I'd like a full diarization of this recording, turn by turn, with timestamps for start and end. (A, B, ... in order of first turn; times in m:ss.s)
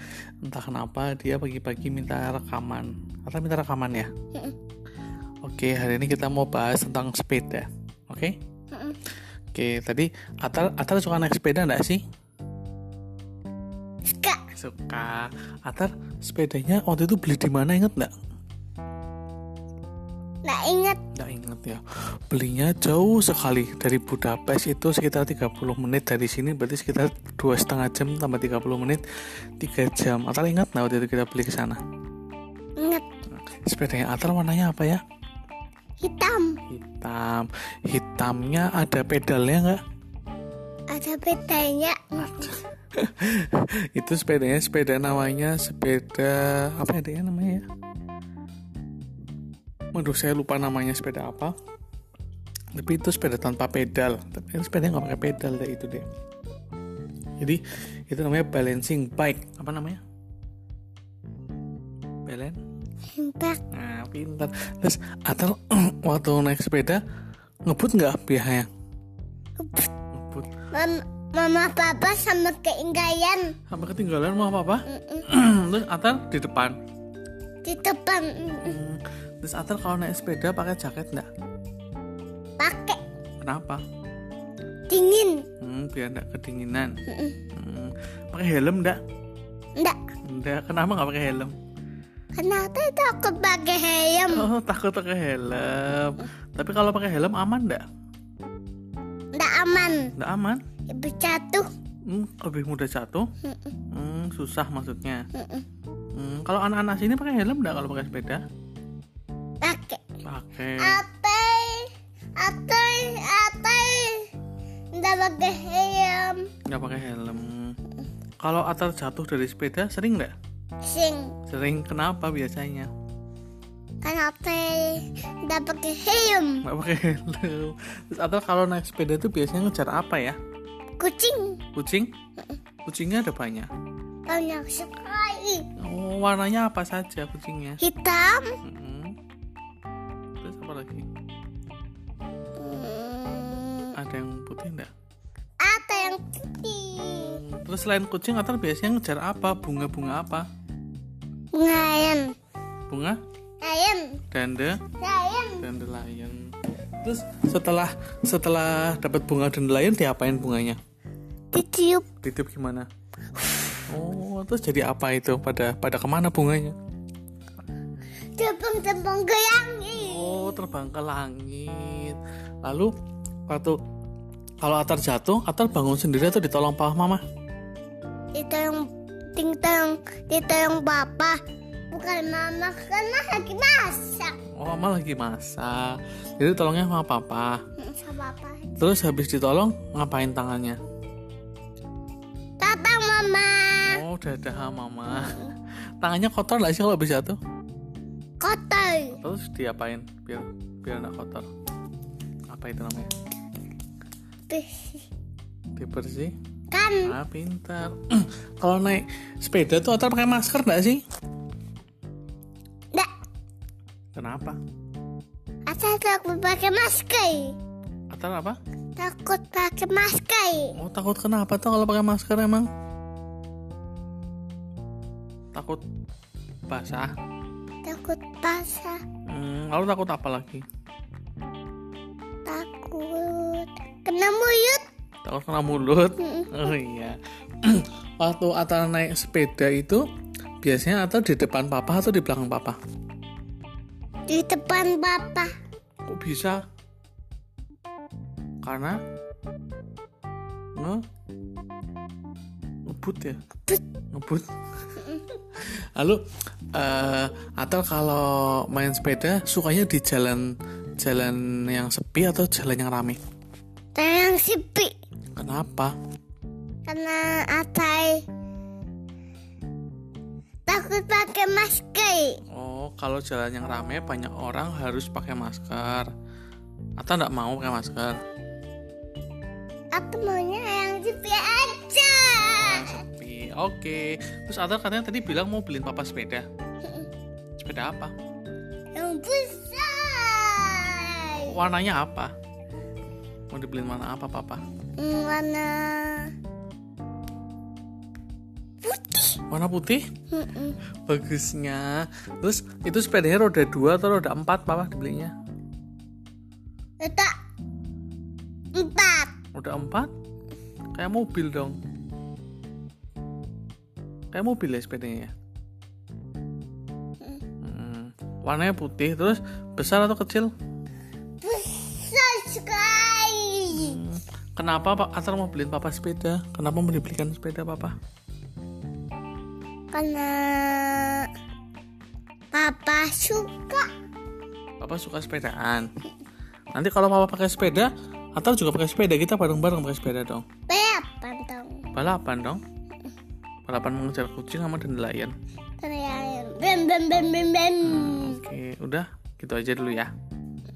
0:00.4-0:04.1 A
0:05.4-0:08.4 A
0:08.7-0:09.0 B
0:09.5-0:12.0 A
0:14.1-0:14.4 B
0:14.5-0:18.1 A
0:20.4-0:21.0 B
0:21.1-0:29.0 A
0:29.6-0:31.8 A
0:32.8-0:33.0 B
0:33.5-0:35.0 A
0:36.0-0:36.6 B
0:36.7-0:39.8 A
0:40.9-0:42.4 B
0:42.2-0:47.6 A
0:49.9-0:51.5 A
0:52.7-0:56.0 A
0:57.4-1:00.0 A
1:02.2-1:02.6 A
1:03.2-1:03.6 B
1:03.7-1:07.0 A
1:07.7-1:08.7 A
1:09.6-1:09.9 B
1:10.1-1:10.5 A
1:10.7-1:13.5 B
1:13.7-1:16.8 A
1:14.9-1:15.3 B
1:17.6-1:18.8 B
1:18.6-1:21.3 A
1:22.6-1:23.0 B
1:23.4-1:23.8 A
1:24.9-1:25.4 B
1:25.6-1:27.0 A
1:27.1-1:27.4 B
1:27.5-1:29.0 A
1:30.2-1:31.5 A
1:32.3-1:34.4 B
1:34.3-1:37.8 A
1:39.3-1:40.1 B
1:40.2-1:40.6 A
1:40.9-1:41.7 B
1:42.0-1:43.3 A
1:43.4-1:43.7 B
1:43.9-1:45.2 A
1:45.3-1:45.6 B
1:46.1-1:48.4 A
1:49.6-1:50.0 B
1:50.2-1:51.0 A
1:50.8-1:54.3 B
1:54.9-1:56.4 B
1:56.6-1:57.8 A
1:58.4-2:00.3 A
2:00.8-2:01.3 B
2:01.5-2:02.9 A
2:04.0-2:06.6 B
2:06.6-2:10.4 A
2:11.0-2:11.6 B
2:11.7-2:12.1 A
2:12.8-2:13.7 A
2:14.3-2:15.7 B
2:15.8-2:17.8 A
2:17.8-2:18.5 B
2:18.6-2:19.2 A
2:20.4-2:21.1 A
2:22.6-2:23.9 B
2:23.9-2:24.9 A
2:25.6-2:27.4 B
2:27.3-2:30.5 A
2:31.5-2:32.3 B
2:32.9-2:33.2 A
2:33.6-2:34.2 B
2:34.3-2:34.8 A
2:35.0-2:35.6 B
2:35.6-2:40.8 A
2:41.5-2:42.0 B
2:42.2-2:42.9 A
2:43.9-2:46.8 A
2:48.4-2:50.6 B
2:50.0-2:52.9 A
2:53.5-2:53.8 A
2:54.6-2:57.2 A
2:58.3-3:01.4 B
3:01.9-3:04.4 B
3:04.6-3:07.6 A
3:07.8-3:08.8 B
3:08.8-3:10.8 A
3:12.6-3:14.0 B
3:13.8-3:15.5 A
3:15.1-3:15.5 B
3:16.0-3:17.4 A
3:18.4-3:19.2 B
3:19.2-3:21.4 A
3:22.5-3:23.1 A
3:24.5-3:25.0 B
3:25.8-3:26.3 A
3:26.7-3:27.1 B
3:27.0-3:31.0 A
3:34.1-3:34.6 A
3:35.7-3:37.6 B
3:38.1-3:38.6 A
3:39.0-3:40.7 B
3:40.8-3:42.7 A
3:45.5-3:45.8 A
3:46.7-3:47.1 A
3:47.8-3:49.0 B
3:49.3-3:50.6 A
3:52.4-3:54.8 B
3:55.2-4:00.0 A
3:56.2-3:56.7 B
4:00.6-4:02.8 A
4:04.3-4:05.5 B
4:06.1-4:06.6 A
4:08.6-4:09.0 A
4:12.9-4:13.4 A
4:14.1-4:14.4 A
4:15.5-4:16.2 A
4:16.7-4:23.2 A
4:23.9-4:24.9 B
4:25.3-4:25.9 A
4:26.8-4:28.2 B
4:30.7-4:32.4 B
4:32.5-4:36.1 A
4:37.0-4:38.2 A
4:39.9-4:43.0 B
4:42.5-4:46.4 A
4:46.8-4:47.1 B
4:47.6-4:48.1 A
4:48.9-4:51.6 B
4:51.3-4:52.3 A
4:53.5-4:54.6 A
4:55.0-4:56.3 B
4:58.8-4:59.4 B
4:59.5-5:00.0 A
5:00.3-5:00.8 B
5:01.0-5:05.3 A
5:07.0-5:07.3 B
5:08.7-5:09.3 B
5:09.5-5:10.1 A
5:10.9-5:11.8 A
5:14.3-5:15.3 A
5:17.6-5:20.5 A
5:21.4-5:24.0 B
5:23.7-5:27.9 A
5:29.9-5:31.3 B
5:32.5-5:33.9 B
5:34.8-5:35.9 A
5:36.7-5:40.4 A
5:40.7-5:41.8 B
5:41.9-5:42.6 A
5:43.7-5:45.3 A
5:45.8-5:48.4 B
5:47.8-5:50.1 A